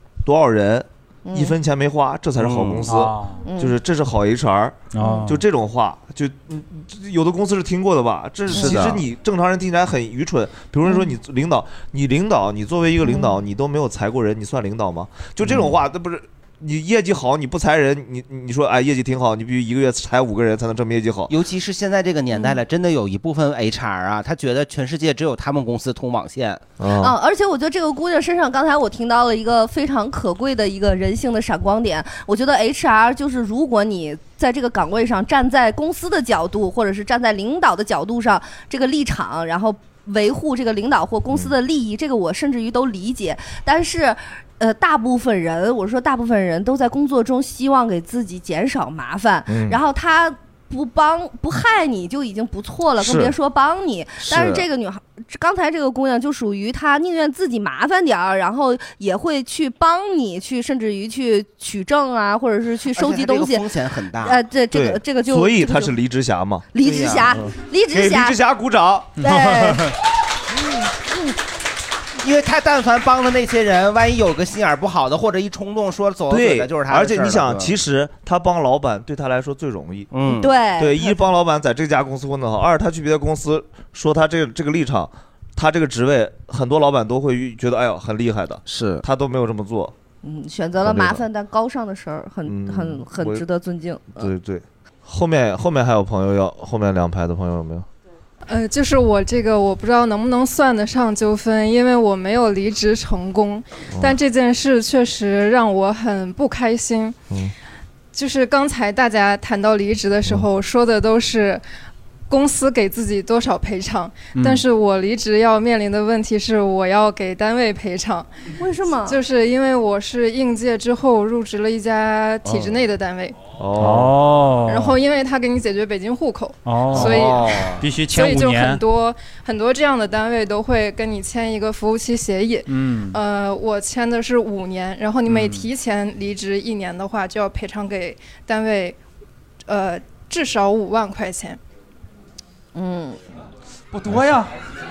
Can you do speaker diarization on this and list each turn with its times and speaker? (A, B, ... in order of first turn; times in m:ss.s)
0:00.2-0:21.3 A
0:01.2-0:01.6 B
0:02.4-0:03.0 C
0:02.9-0:03.4 D
0:03.4-0:03.8 B
0:04.9-0:05.4 D
0:05.0-0:05.3 B
0:08.5-0:09.0 C
0:08.5-0:08.8 B
0:10.8-0:11.1 B
0:13.0-0:13.4 B
0:15.4-0:15.8 C
0:21.3-0:26.6 C
0:26.8-0:27.2 A
0:27.0-1:03.7 B
0:49.5-0:49.8 A
0:53.0-0:53.3 A
0:54.3-0:54.6 A
1:03.0-1:04.4 C
1:04.2-1:05.9 B
1:04.7-1:06.7 A
1:06.7-1:08.4 B
1:06.8-1:07.4 C
1:07.3-1:09.8 A
1:09.2-1:09.8 B
1:10.7-1:11.4 B
1:12.2-1:17.7 C
1:16.3-1:20.1 A
1:20.1-1:20.5 C
1:20.3-1:21.1 B
1:20.8-1:29.9 A
1:28.7-1:29.0 C
1:30.2-1:34.3 B
1:30.8-1:31.2 A
1:32.4-1:33.4 A
1:34.2-1:37.9 A
1:38.5-1:47.2 E
1:48.1-1:51.6 E
1:52.3-1:58.3 E
1:54.4-1:54.6 D
1:58.6-1:59.2 B
1:59.0-2:03.4 E
2:03.6-2:04.1 A
2:03.8-2:05.0 D
2:04.7-2:19.0 E
2:06.6-2:08.8 D
2:06.9-2:07.8 A
2:12.7-2:13.2 D
2:15.3-2:15.7 D
2:19.7-2:21.6 E
2:22.8-2:23.2 B
2:23.9-2:24.5 D